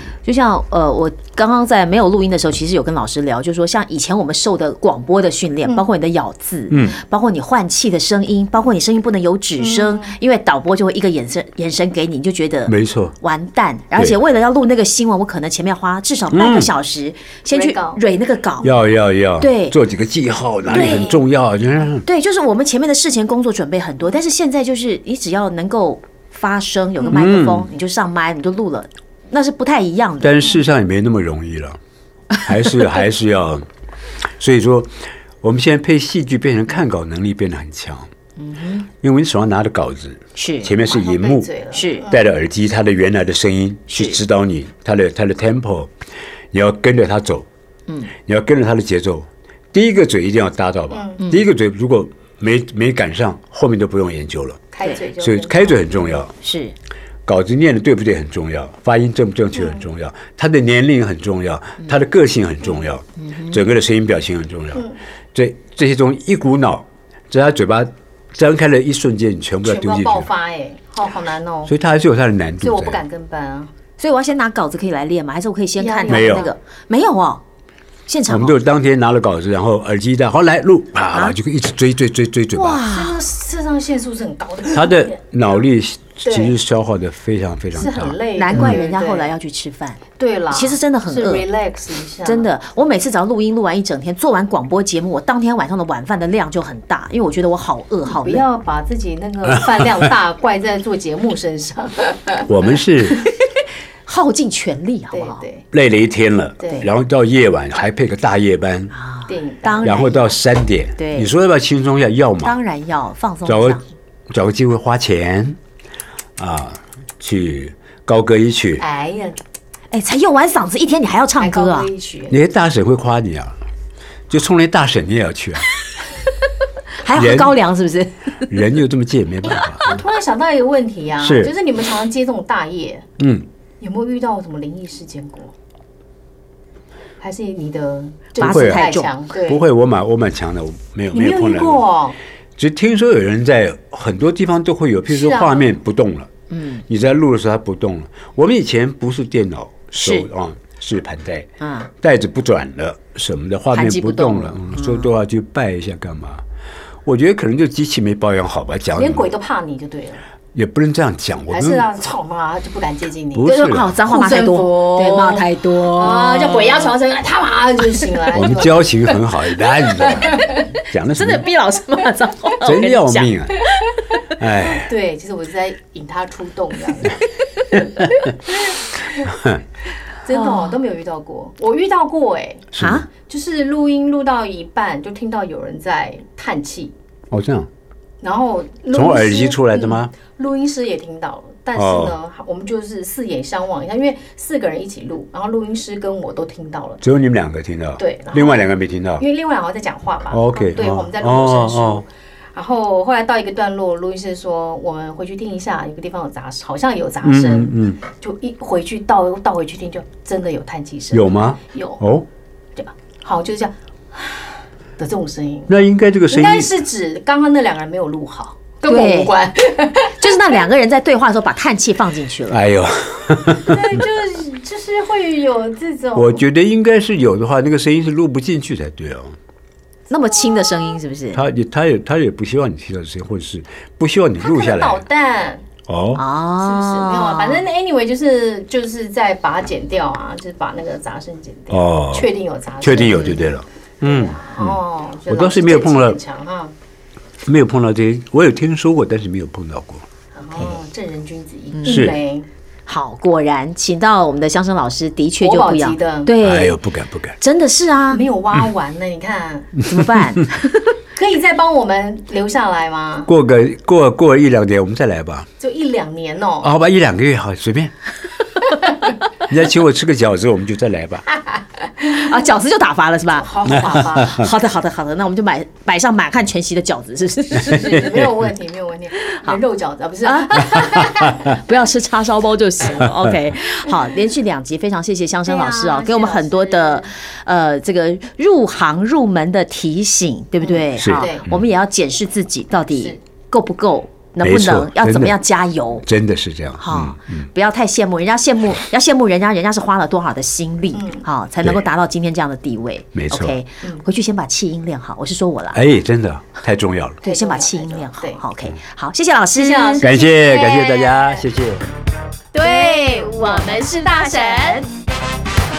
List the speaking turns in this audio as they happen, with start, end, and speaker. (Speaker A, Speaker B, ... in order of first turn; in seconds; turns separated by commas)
Speaker A: 0.2-18.8, Speaker B: 6.7-7.0, Speaker C: 9.6-10.2, Speaker B: 12.7-13.1, Speaker B: 16.3-16.7, Speaker C: 17.5-18.0, Speaker B: 18.6-22.1, Speaker A: 19.4-19.8, Speaker A: 20.7-21.2, Speaker C: 20.8-21.1, Speaker A: 22.1-30.5, Speaker B: 27.1-27.7, Speaker B: 30.2-31.8, Speaker B: 32.4-33.7, Speaker B: 34.2-38.1, Speaker A: 38.4-38.9, Speaker B: 39.0-41.5, Speaker A: 40.4-40.7, Speaker C: 40.8-42.3, Speaker A: 41.7-42.1, Speaker B: 42.1-45.9, Speaker A: 43.9-44.2, Speaker B: 46.5-47.5, Speaker B: 48.3-54.6, Speaker C: 50.9-51.2, Speaker C: 54.7-56.0, Speaker B: 55.2-56.3, Speaker A: 56.4-56.8, Speaker B: 57.3-70.3, Speaker C: 59.5-59.8, Speaker A: 63.2-63.6, Speaker C: 69.6-71.7, Speaker B: 71.7-73.0, Speaker C: 72.6-73.7, Speaker A: 74.0-77.4, Speaker C: 75.8-76.5, Speaker B: 76.1-76.5, Speaker A: 78.1-78.6, Speaker B: 78.3-82.8, Speaker A: 82.5-83.2, Speaker C: 82.9-85.2, Speaker B: 84.7-88.8, Speaker C: 86.2-86.6, Speaker C: 87.7-89.3, Speaker A: 88.3-91.5, Speaker C: 90.2-92.8, Speaker A: 92.2-98.5, Speaker C: 98.1-102.5, Speaker B: 102.5-103.3, Speaker A: 104.1-105.5, Speaker C: 105.1-105.7, Speaker B: 105.7-108.9, Speaker C: 106.6-106.9, Speaker A: 108.9-110.3, Speaker C: 109.3-110.0, Speaker B: 109.8-112.5, Speaker A: 111.0-111.3, Speaker A: 112.4-113.8, Speaker B: 113.5-115.6, Speaker B: 116.4-118.8, Speaker C: 118.8-119.4, Speaker A: 119.9-121.9, Speaker C: 121.4-122.4, Speaker B: 122.3-123.6, Speaker B: 124.3-125.7, Speaker A: 127.0-128.5, Speaker B: 127.1-127.6, Speaker B: 128.5-130.0, Speaker C: 129.8-133.1, Speaker B: 131.2-131.5, Speaker B: 133.2-133.5, Speaker C: 133.8-135.5, Speaker C: 137.2-139.6, Speaker A: 138.3-139.1, Speaker B: 138.4-138.9, Speaker B: 139.4-141.9, Speaker C: 141.1-142.2, Speaker B: 142.6-146.3, Speaker C: 145.1-145.7, Speaker A: 146.5-146.8, Speaker B: 146.9-151.5, Speaker A: 150.0-150.3, Speaker A: 151.6-151.9, Speaker B: 152.0-156.4, Speaker A: 153.7-155.1, Speaker B: 157.1-159.3, Speaker C: 158.9-160.2, Speaker B: 160.5-161.9, Speaker C: 161.5-169.2, Speaker B: 163.3-164.0, Speaker A: 163.4-166.9, Speaker B: 168.3-171.5, Speaker C: 169.7-170.7, Speaker A: 170.4-174.3, Speaker B: 172.6-173.6, Speaker B: 174.3-174.9, Speaker C: 174.7-177.2, Speaker B: 179.2-179.6, Speaker C: 180.2-186.9, Speaker A: 180.3-180.8, Speaker B: 182.7-183.1, Speaker A: 182.8-183.1, Speaker B: 187.3-187.7, Speaker C: 188.2-197.0, Speaker B: 188.9-190.1, Speaker B: 191.7-192.2, Speaker B: 197.0-199.2, Speaker C: 198.0-212.0, Speaker B: 200.3-202.1, Speaker B: 207.2-208.0, Speaker B: 211.1-212.3, Speaker C: 212.8-215.7, Speaker B: 215.7-216.7, Speaker C: 216.3-220.6, Speaker A: 218.8-219.3, Speaker A: 220.1-222.6, Speaker B: 222.5-224.0, Speaker C: 223.6-226.4, Speaker B: 226.1-229.4, Speaker A: 230.1-231.4, Speaker B: 231.3-235.0, Speaker C: 234.4-235.6, Speaker B: 235.9-236.2, Speaker A: 236.2-237.7, Speaker C: 236.6-246.7, Speaker B: 241.7-242.3, Speaker B: 242.8-246.2, Speaker B: 247.4-250.1, Speaker C: 250.3-252.5, Speaker A: 251.7-252.1, Speaker B: 251.9-252.2, Speaker A: 252.9-256.8, Speaker C: 255.4-256.3, Speaker B: 256.4-257.4, Speaker A: 257.4-258.2, Speaker C: 258.1-259.8, Speaker A: 259.9-260.9, Speaker B: 260.0-260.4, Speaker C: 261.1-263.3, Speaker B: 263.3-265.5, Speaker C: 265.6-266.7, Speaker B: 266.6-267.9, Speaker B: 269.4-271.3, Speaker A: 272.0-278.2, Speaker C: 273.3-274.4, Speaker B: 274.2-274.5, Speaker C: 277.5-281.5, Speaker A: 279.2-279.6, Speaker A: 280.2-296.1, Speaker C: 285.5-287.1, Speaker C: 290.6-291.5, Speaker B: 291.0-291.6, Speaker B: 294.4-295.4, Speaker B: 296.0-297.5, Speaker A: 296.8-305.8, Speaker C: 300.9-301.3, Speaker B: 303.1-303.6, Speaker B: 305.7-307.2, Speaker C: 307.2-308.4, Speaker A: 307.2-310.1, Speaker C: 309.5-311.4, Speaker B: 310.0-311.8, Speaker A: 312.5-314.9, Speaker C: 312.6-314.9